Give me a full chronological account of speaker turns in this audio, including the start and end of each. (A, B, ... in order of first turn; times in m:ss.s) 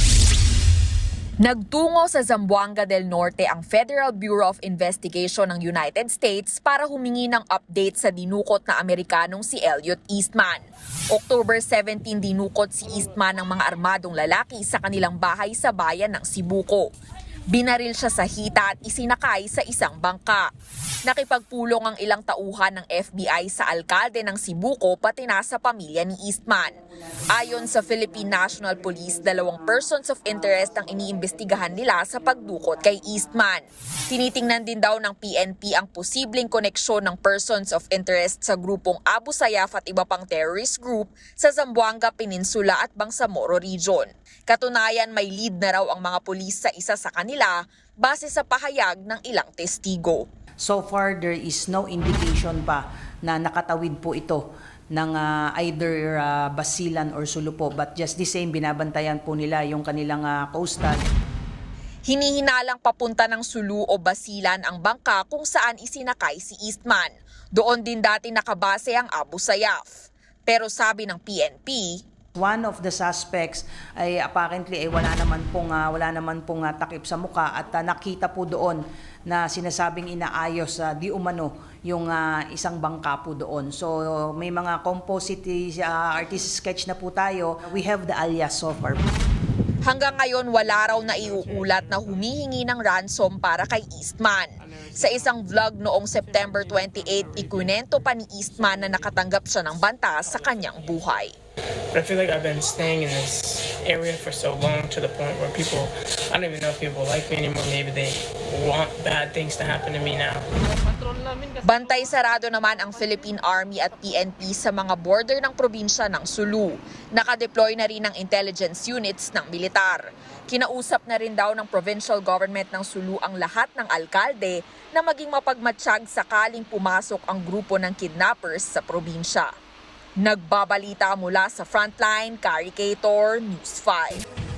0:01.4-0:16.9 A
0:17.5-0:20.5 A
0:21.1-0:26.8 A
0:27.3-0:33.2 B
0:27.3-0:50.2 A
0:50.6-1:01.1 B
1:02.1-1:09.9 A
1:10.5-1:12.0 A
1:12.4-1:29.1 B
1:29.8-1:41.3 A
1:29.9-1:32.5 C
1:34.6-1:35.6 C
1:36.1-1:41.3 C
1:41.9-1:52.1 C
1:51.6-2:09.5 A
2:10.2-2:14.2 A